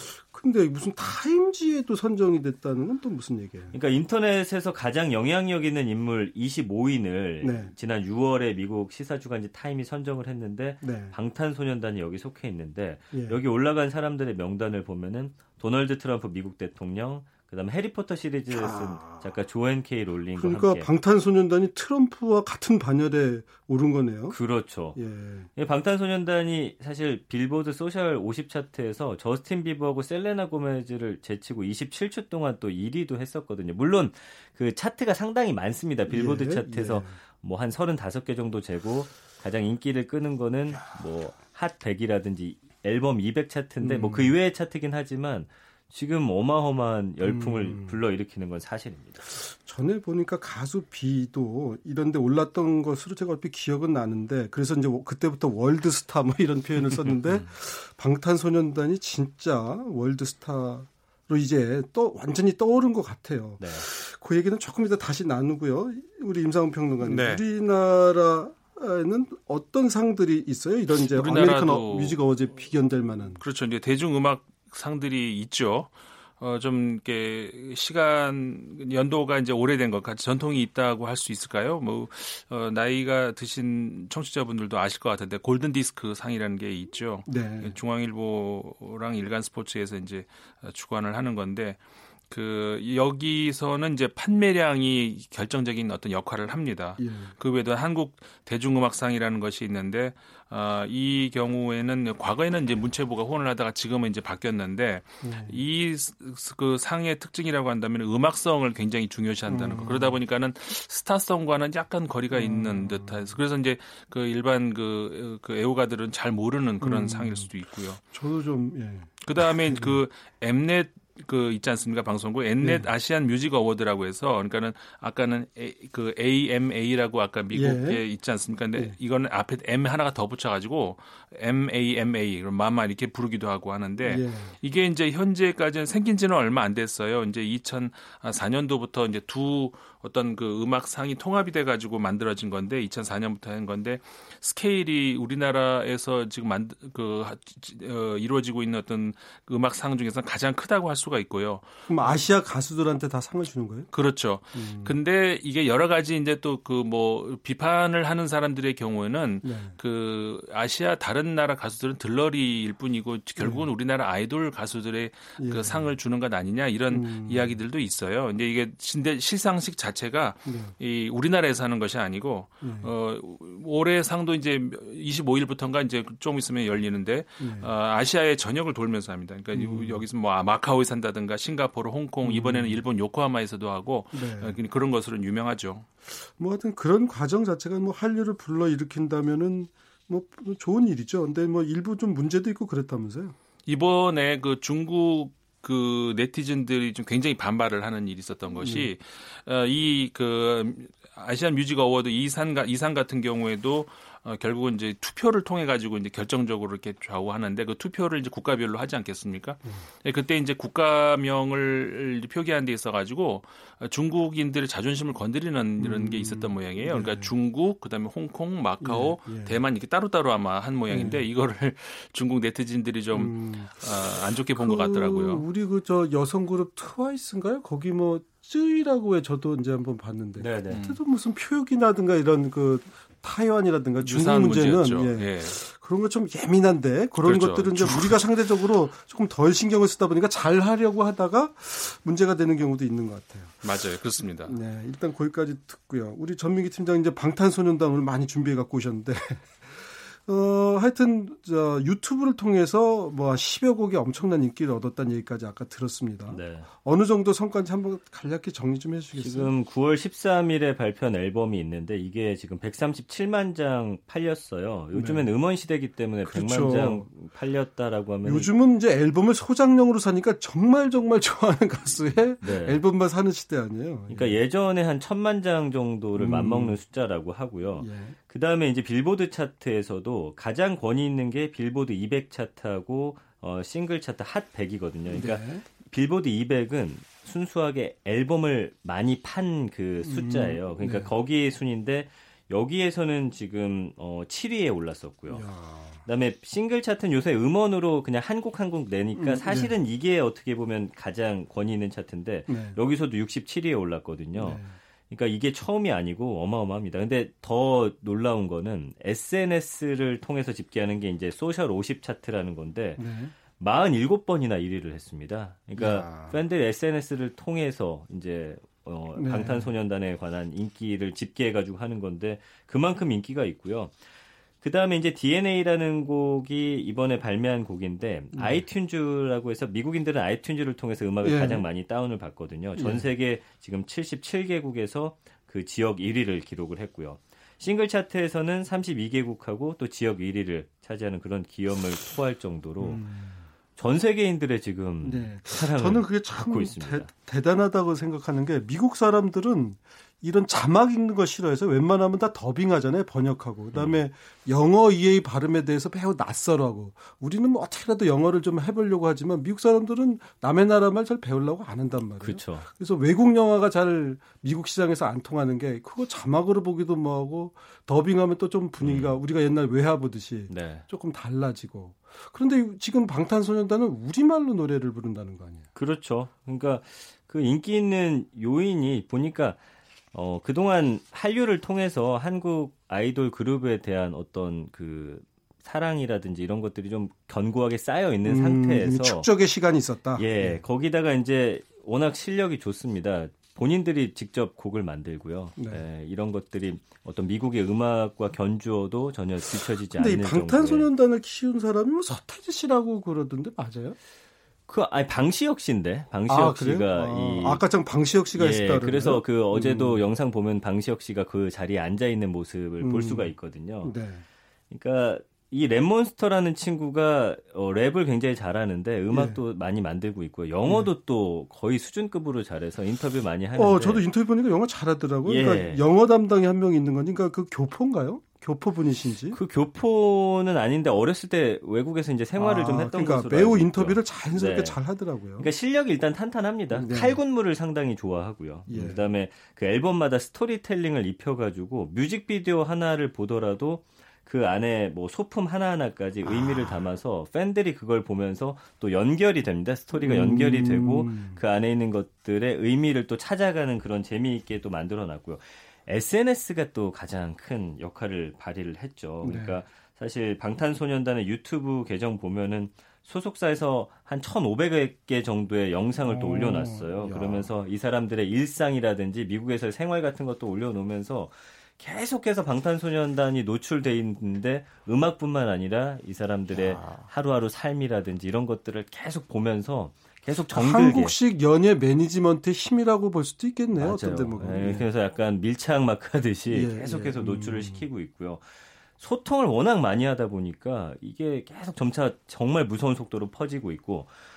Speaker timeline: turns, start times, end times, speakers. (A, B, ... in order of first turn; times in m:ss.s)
0:00.1-0:03.7 A
0:03.7-0:20.9 B
0:07.4-0:07.7 A
0:10.8-0:11.2 A
0:13.1-0:13.4 A
0:18.5-0:19.2 A
0:20.4-0:24.4 A
0:24.3-0:25.0 B
0:25.0-0:25.5 A
0:25.6-0:49.3 B
0:36.1-0:37.2 A
0:43.8-0:44.4 A
0:47.2-0:48.0 A
0:49.4-1:13.4 A
1:03.6-1:03.9 B
1:07.0-1:07.4 C
1:10.9-1:12.2 C
1:13.4-1:58.0 C
1:27.3-1:27.8 A
1:37.0-1:37.3 A
1:45.2-1:45.6 A
1:49.5-1:50.2 A
1:52.3-1:53.4 A
1:56.8-1:57.5 A
1:58.1-1:59.1 A
1:59.2-2:32.2 C
1:59.6-2:00.0 A
2:02.6-2:02.9 A
2:07.5-2:08.0 A
2:14.0-2:14.6 A
2:31.9-2:33.9 A
2:33.9-3:05.9 C
2:34.6-2:35.0 A
2:39.4-2:39.8 A
2:43.4-2:43.7 A
2:45.4-2:45.9 A
2:46.9-2:47.6 A
2:50.5-2:50.7 A
2:52.6-2:52.9 A
2:57.4-2:57.7 A
2:59.5-3:00.0 A
3:02.2-3:02.8 A
3:04.2-3:04.6 A
3:06.2-3:13.4 A
3:13.7-3:45.5 C
3:18.6-3:18.9 A
3:35.8-3:37.3 A
3:38.8-3:39.6 A
3:40.9-3:41.2 A
3:43.1-4:03.6 A
3:50.4-3:50.8 B
3:50.7-3:51.0 C
3:54.0-3:55.6 C
3:57.2-3:58.3 C
4:03.6-4:04.6 C
4:04.4-4:19.5 A
4:16.3-4:16.7 B
4:19.2-4:28.5 B
4:24.9-4:25.3 A
4:26.3-4:27.1 A
4:28.2-4:34.4 A
4:32.4-4:32.8 B
4:34.1-4:55.4 B
4:36.2-4:36.8 A
4:37.8-4:38.2 A
4:45.1-4:45.6 A
4:50.1-4:51.1 A
4:55.3-4:56.0 A
4:56.0-5:24.0 B
4:59.2-4:59.7 A
5:02.5-5:02.8 A
5:04.4-5:04.8 A
5:13.0-5:13.3 A
5:15.8-5:16.4 A
5:19.2-5:19.7 A
5:24.6-5:43.0 B
5:28.3-5:28.6 A
5:31.2-5:31.6 A
5:32.8-5:33.1 A
5:42.8-5:43.4 A
5:43.8-5:47.1 B
5:45.0-6:15.7 A
5:53.7-5:54.0 B
6:02.2-6:02.7 B
6:08.8-6:09.2 B
6:10.5-6:10.9 B
6:15.8-6:19.6 B
6:20.1-6:29.3 B
6:28.2-6:30.6 A
6:30.2-6:40.9 B
6:35.6-6:35.8 A
6:39.8-6:44.0 A
6:44.7-6:47.6 B
6:46.3-6:50.0 A
6:48.3-6:53.9 B
6:52.8-6:53.3 A
6:53.8-6:54.2 A
6:54.7-7:04.0 B
6:59.1-6:59.4 A
7:03.6-7:09.4 A
7:05.2-7:05.8 B
7:09.3-7:14.8 B
7:12.4-7:15.5 A
7:15.4-8:01.2 B
7:16.7-7:17.2 A
7:18.7-7:19.0 A
7:26.2-7:26.8 A
7:30.0-7:31.4 A
7:39.2-7:39.6 A
7:46.0-7:47.5 A
7:56.6-7:57.0 A
8:00.5-8:04.9 A
8:03.8-8:08.4 B
8:06.5-8:07.8 A
8:09.0-8:14.1 B